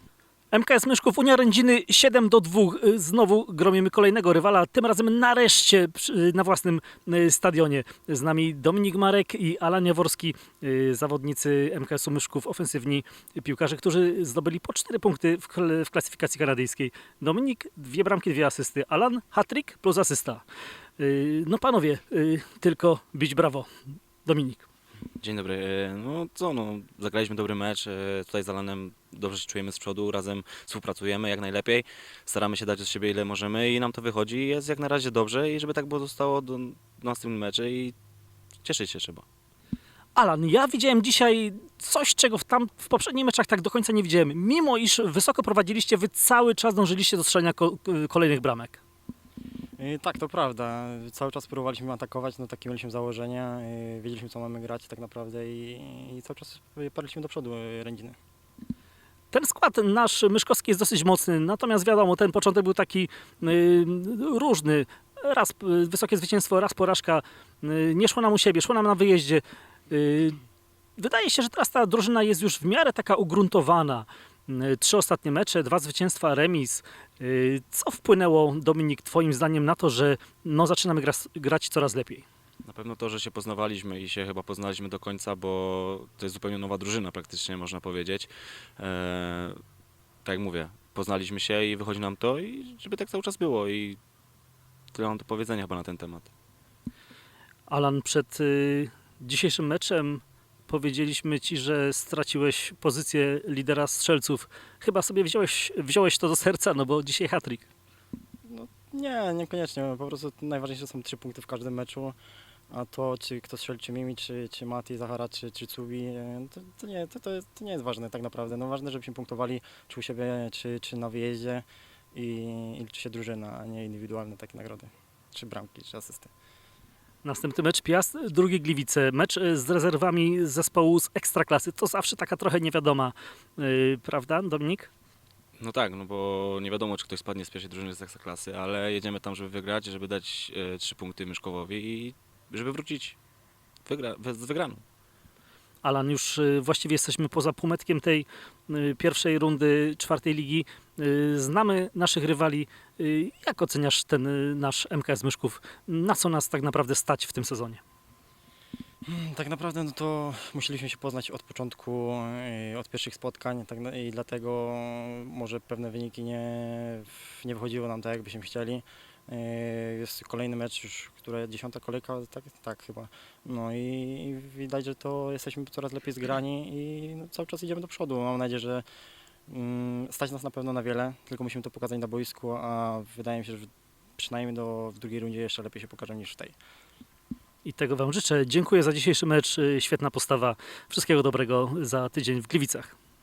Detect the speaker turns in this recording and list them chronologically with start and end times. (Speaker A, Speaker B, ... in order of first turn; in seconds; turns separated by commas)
Speaker A: 0.5-20.4, Speaker A: 21.0-23.7, Speaker A: 24.2-24.6, Speaker B: 25.2-38.0, Speaker B: 38.6-39.2, Speaker A: 40.1-48.8, Speaker C: 49.8-58.2, Speaker A: 59.3-70.4, Speaker A: 71.0-82.2, Speaker B: 82.7-89.6, Speaker B: 90.2-94.0, Speaker B: 94.9-96.3, Speaker A: 97.7-107.7, Speaker C: 108.5-112.2, Speaker C: 112.7-126.3, Speaker A: 127.2-134.9, Speaker B: 135.6-143.2, Speaker B: 143.9-144.8, Speaker A: 145.8-157.8, Speaker C: 159.1-178.8, Speaker C: 179.5-186.6, Speaker A: 187.7-192.9